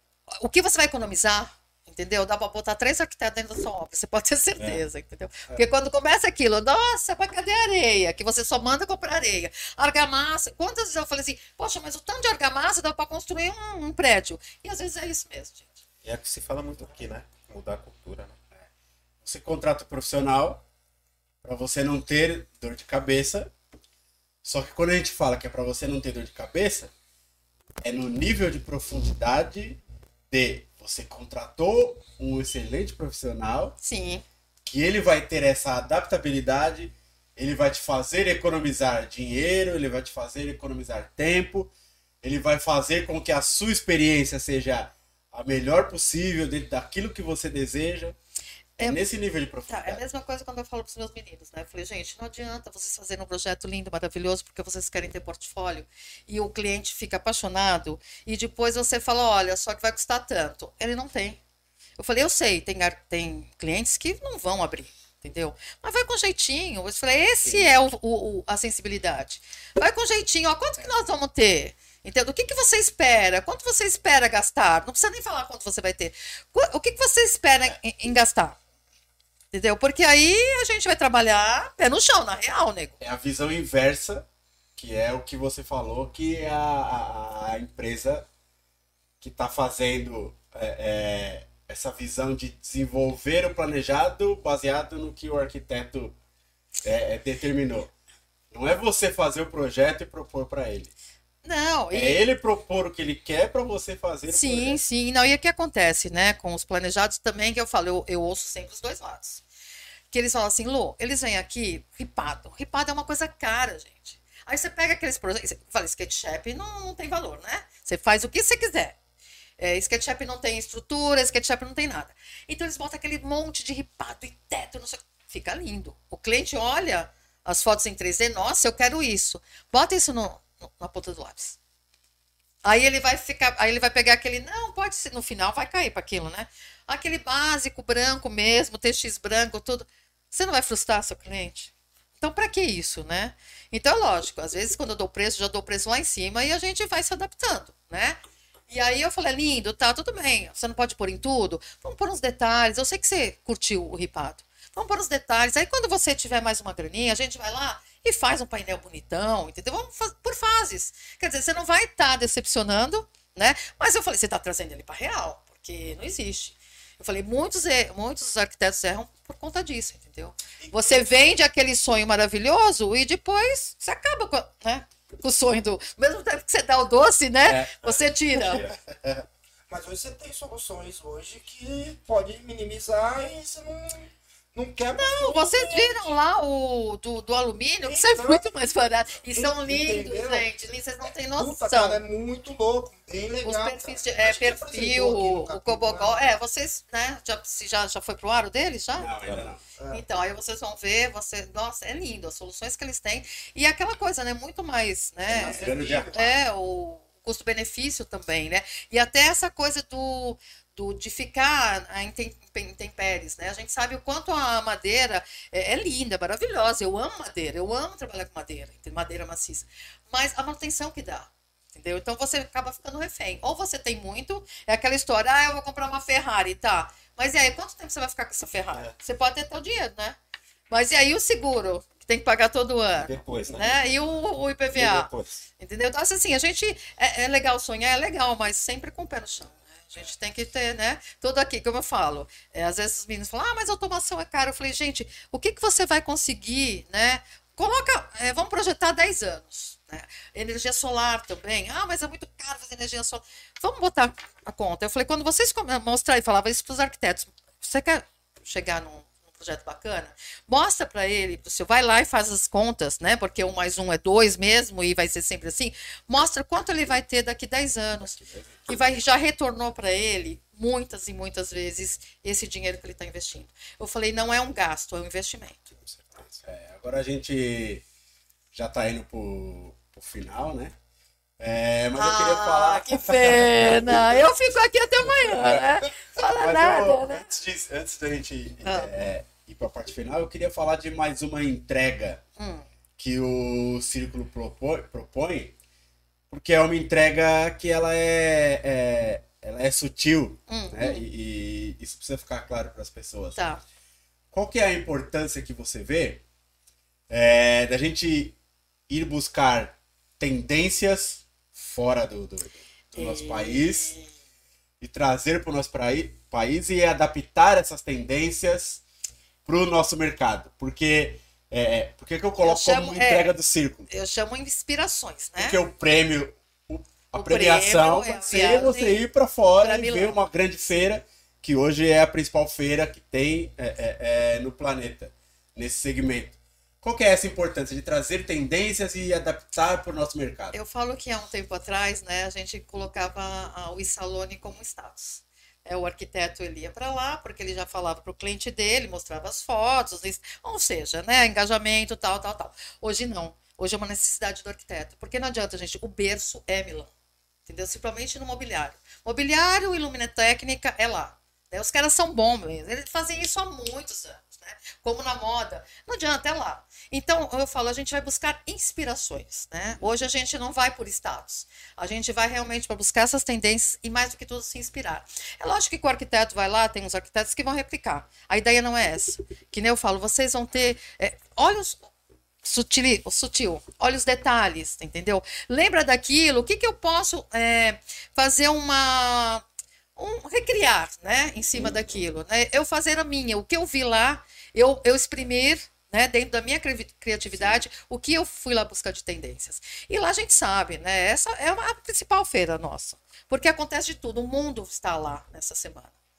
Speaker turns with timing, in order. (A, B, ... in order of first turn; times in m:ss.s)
0:00.3-0:15.7 A
0:04.6-0:04.8 B
0:16.0-0:18.4 B
0:19.2-0:20.6 C
0:21.4-0:23.5 C
0:24.4-0:26.9 C
0:27.8-0:33.8 C
0:33.8-0:34.2 A
0:34.6-0:48.2 C
0:48.8-0:50.0 C
0:49.7-1:01.4 A
1:02.0-1:18.6 A
1:19.5-1:23.0 A
1:23.0-1:24.2 C
1:24.8-1:28.2 C
1:29.2-1:36.2 C
1:36.8-1:37.9 C
1:38.5-1:40.9 C
1:41.4-1:42.2 A
1:41.9-1:44.8 C
1:44.3-1:49.4 A
1:50.1-1:59.0 A
1:59.6-2:11.6 A
2:12.6-2:58.6 A
2:50.6-2:51.1 D
2:57.4-2:59.2 C
2:59.7-3:06.1 D
3:05.0-3:12.0 A
3:07.8-3:08.5 D
3:09.2-3:10.5 D
3:11.3-3:16.4 D
3:13.4-3:19.1 A
3:19.0-3:19.6 C
3:19.2-3:19.5 B
3:19.8-3:20.0 D
3:19.9-3:50.2 A
3:25.3-3:26.4 D
3:25.3-3:26.2 C
3:50.7-4:28.2 A
3:53.0-3:55.4 B
4:28.1-4:28.7 C
4:28.7-4:35.7 A
4:35.9-4:36.3 B
4:36.4-4:37.8 C
4:38.5-4:40.7 C
4:41.4-4:44.3 C
4:41.9-4:47.3 A
4:45.1-4:52.2 C
4:48.6-4:48.9 A
4:52.4-4:52.6 A
4:53.0-4:55.5 C
4:56.3-5:03.4 C
5:00.5-5:01.0 A
5:03.3-5:03.6 A
5:04.3-5:06.2 C
5:07.1-5:08.4 C
5:08.9-5:13.9 C
5:13.0-5:14.1 A
5:14.8-5:18.8 C
5:19.4-5:23.9 C
5:22.4-5:23.3 A
5:23.9-5:25.6 A
5:25.4-5:40.5 C
5:27.1-5:29.0 A
5:29.6-5:30.2 A
5:40.5-5:56.9 A
5:57.4-6:21.9 A
6:22.4-6:29.4 A
6:30.0-6:45.9 A
6:31.6-6:32.0 B